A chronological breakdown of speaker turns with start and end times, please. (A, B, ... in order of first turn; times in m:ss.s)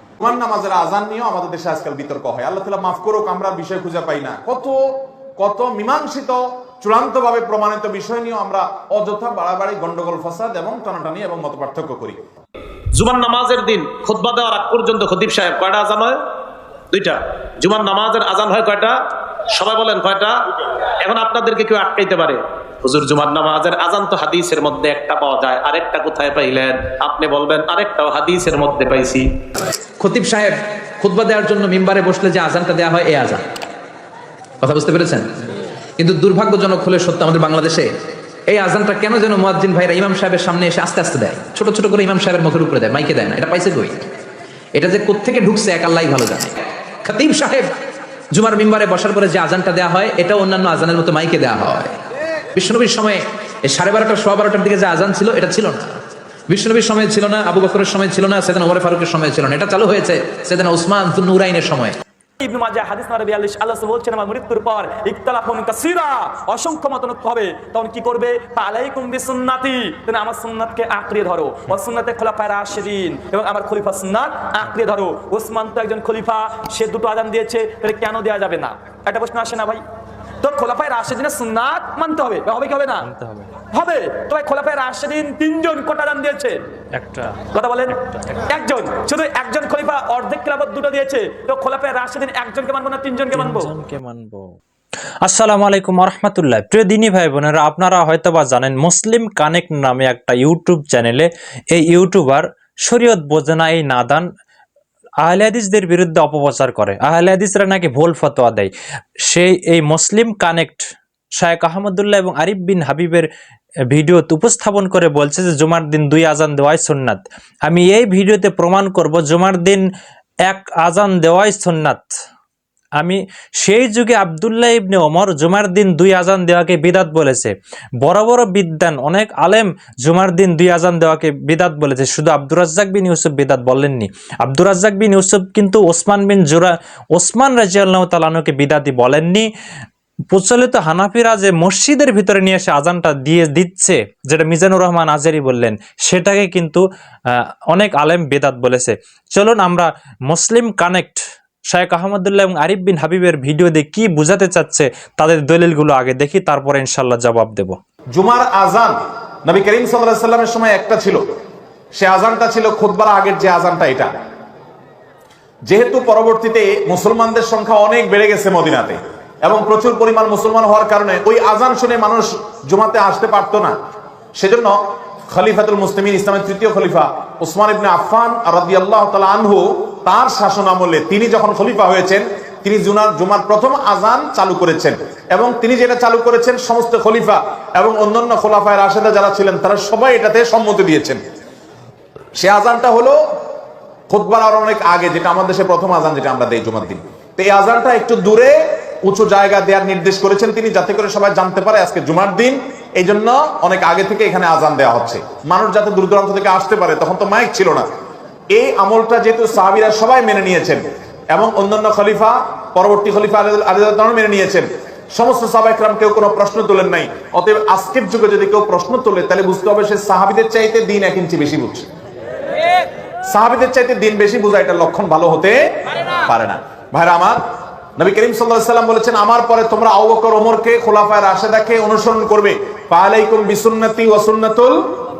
0:00.2-0:04.8 A
0:05.4-0:12.2 A
0:13.0-0:16.1 B
0:17.7-0:18.9 B
0:19.6-0:20.3 B
0:21.1-0:22.4 B
0:22.9-0:29.2 B
0:30.0-0:33.4 C
0:34.6-0:35.3 C
0:36.0-0:37.9 C
0:38.5-0:44.0 C
0:44.8-0:47.7 C
0:48.3-0:51.9 C
0:52.6-0:56.0 C
0:56.5-1:02.0 C
1:02.4-1:19.8 D
1:20.4-1:23.1 D
1:23.0-1:23.5 E
1:23.7-1:26.6 D
1:27.0-1:28.5 E
1:27.5-1:28.0 D
1:28.5-1:33.7 D
1:33.3-1:34.6 E
1:35.2-1:44.3 E
1:45.2-1:48.7 E
1:49.2-1:50.9 E
1:51.4-1:53.3 E
1:53.9-1:59.9 E
2:00.5-2:02.1 E
2:03.0-2:19.5 E
2:20.3-2:31.2 E
2:31.7-2:37.8 E
2:38.2-2:41.2 A
2:42.0-2:44.2 A
2:45.7-2:53.8 A
2:54.4-2:54.8 A
2:55.3-3:11.2 A
3:12.4-3:13.2 A
3:14.1-3:27.9 A
3:28.5-3:41.9 A
3:43.3-3:45.6 A
3:46.3-3:47.4 A
3:48.0-3:54.8 A